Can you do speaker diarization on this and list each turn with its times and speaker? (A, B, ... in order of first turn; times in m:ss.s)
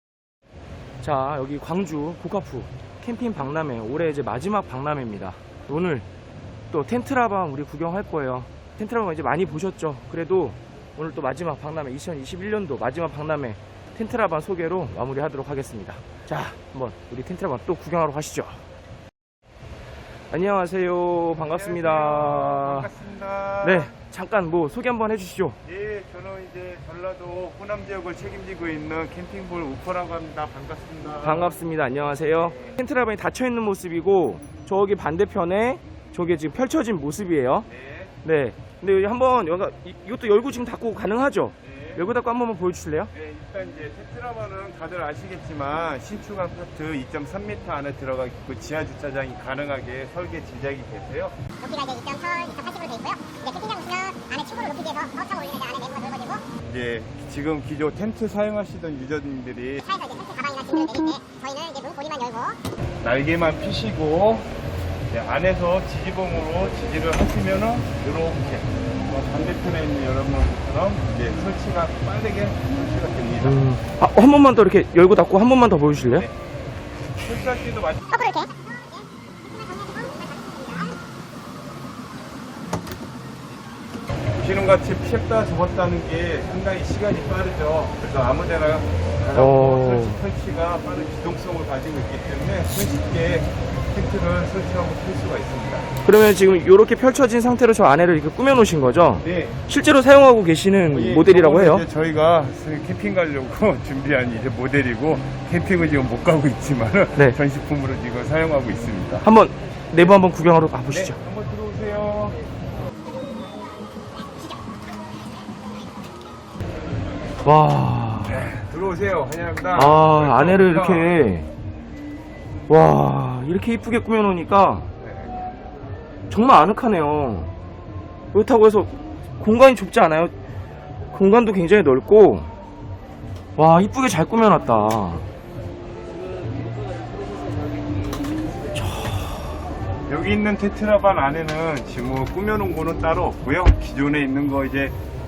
0:01.0-0:06.0 A
0:06.7-0:18.6 A
0:20.3-0:22.9 A
0:21.4-0:23.9 B
0:23.6-0:25.6 A
0:25.6-0:31.6 B
0:31.2-0:37.7 A
0:37.6-0:38.1 B
0:38.2-0:43.1 A
0:41.6-0:42.1 B
0:43.1-0:51.4 B
0:51.6-0:56.5 C
0:56.6-0:59.8 B
0:59.8-1:02.6 C
1:03.0-1:04.5 B
1:05.1-1:13.6 B
1:13.4-1:16.3 A
1:17.2-1:18.1 B
1:18.1-1:20.9 C
1:24.4-1:35.9 B
1:29.3-1:30.2 A
1:36.0-1:41.8 A
1:39.2-1:39.6 B
1:40.9-1:49.3 B
1:49.2-1:51.2 A
1:49.9-1:50.2 B
1:50.9-1:52.4 B
1:57.4-1:58.5 A
1:58.2-2:01.2 B
1:59.7-2:01.4 A
2:02.7-2:04.9 A
2:05.0-2:05.3 B
2:06.3-2:07.5 A
2:08.3-2:10.3 A
2:11.1-2:12.5 A
2:13.6-2:15.2 A
2:18.7-2:19.5 A
2:20.1-2:24.9 B